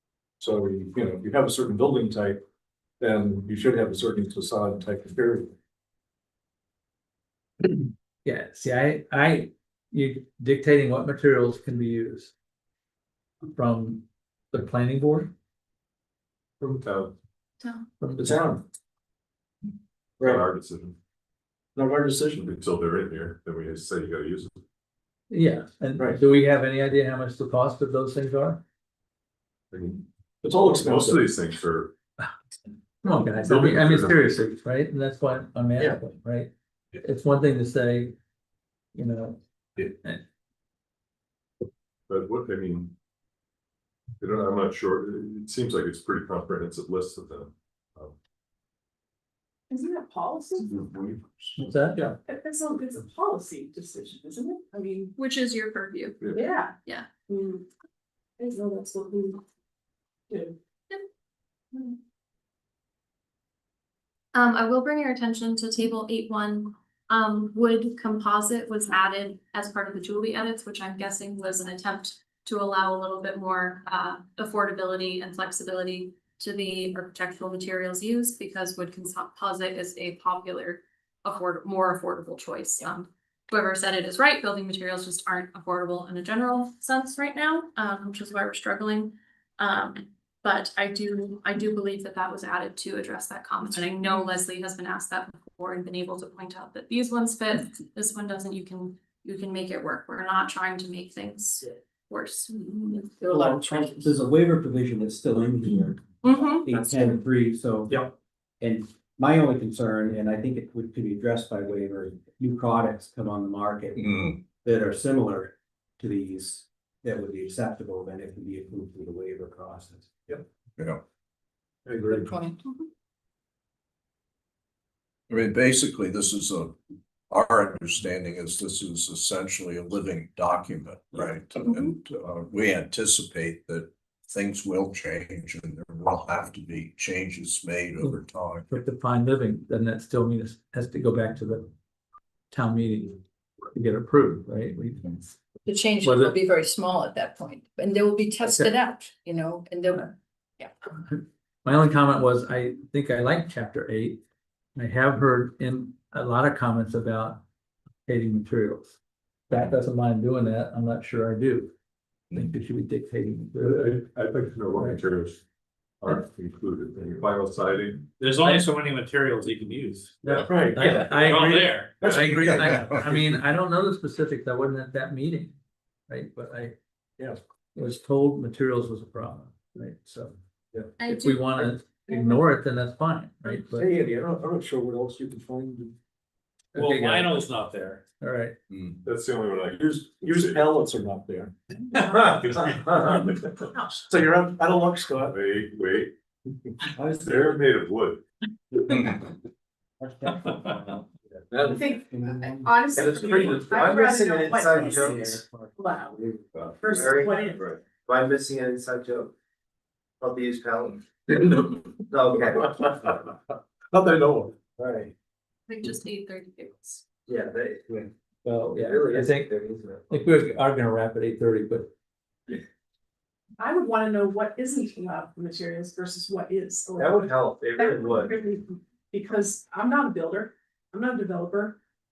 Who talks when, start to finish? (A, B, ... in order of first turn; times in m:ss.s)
0:00.4-0:02.4 A
0:03.0-0:05.5 A
0:08.2-0:12.3 B
0:13.4-0:15.3 B
0:16.8-0:17.2 C
0:18.0-0:18.4 B
0:18.2-0:18.6 A
0:20.2-0:21.0 C
0:21.8-0:22.5 A
0:22.4-0:24.6 C
0:25.3-0:28.6 B
0:29.7-0:30.0 C
0:30.4-0:31.3 A
0:30.6-0:31.9 C
0:33.0-0:38.2 B
0:33.2-0:34.4 C
0:39.0-0:40.2 B
0:42.1-0:43.0 C
0:44.2-0:48.2 C
0:49.7-0:51.0 D
0:51.6-0:52.2 B
0:52.2-0:55.1 D
0:55.2-0:56.3 E
0:56.2-0:56.8 D
0:57.3-0:57.7 D
0:58.4-0:59.4 D
1:00.3-1:00.6 D
1:04.3-1:43.0 E
1:42.7-1:44.1 F
1:43.3-1:46.0 G
1:46.2-1:47.2 E
1:46.6-2:00.1 G
1:54.0-1:54.4 H
2:00.8-2:01.0 H
2:01.9-2:02.2 A
2:02.1-2:02.8 F
2:05.3-2:06.8 H
2:07.3-2:18.7 H
2:18.0-2:21.7 B
2:22.5-2:23.2 B
2:23.7-2:25.4 B
2:25.6-2:30.7 F
2:26.0-2:26.4 B
2:31.1-2:34.2 B
2:34.8-2:37.4 B
2:38.1-2:39.0 B
2:39.5-2:41.7 B
2:42.3-2:44.1 B
2:43.7-2:45.4 C
2:44.7-2:45.0 B
2:46.0-2:48.1 C
2:48.2-2:50.2 I
2:50.2-2:55.6 B
2:50.5-2:50.9 A
2:50.8-2:52.1 I
2:52.0-2:52.6 A
2:56.1-2:56.8 B
2:57.8-3:00.3 B
3:01.0-3:02.4 E
3:01.0-3:03.9 B
3:03.7-3:06.0 A
3:06.7-3:07.5 B
3:06.8-3:08.0 I
3:08.2-3:08.6 B
3:09.0-3:10.7 C
3:09.8-3:11.5 A
3:12.8-3:15.3 A
3:13.7-3:14.1 D
3:15.3-3:16.1 C
3:17.0-3:17.6 G
3:17.2-3:18.2 C
3:20.0-3:21.0 G
3:21.6-3:23.8 G
3:21.7-3:26.2 D
3:22.9-3:25.3 J
3:24.6-3:25.7 G
3:26.1-3:29.3 J
3:26.5-3:27.8 C
3:26.8-3:27.7 D
3:30.2-3:31.2 J
3:31.4-3:31.7 A
3:32.1-3:33.2 J
3:33.9-3:34.5 A
3:34.8-3:35.1 J
3:35.7-3:37.0 E
3:37.3-3:38.1 J
3:38.4-3:39.6 B
3:38.7-3:40.1 J
3:40.1-3:41.9 B
3:43.6-3:51.8 D
3:47.0-3:48.4 J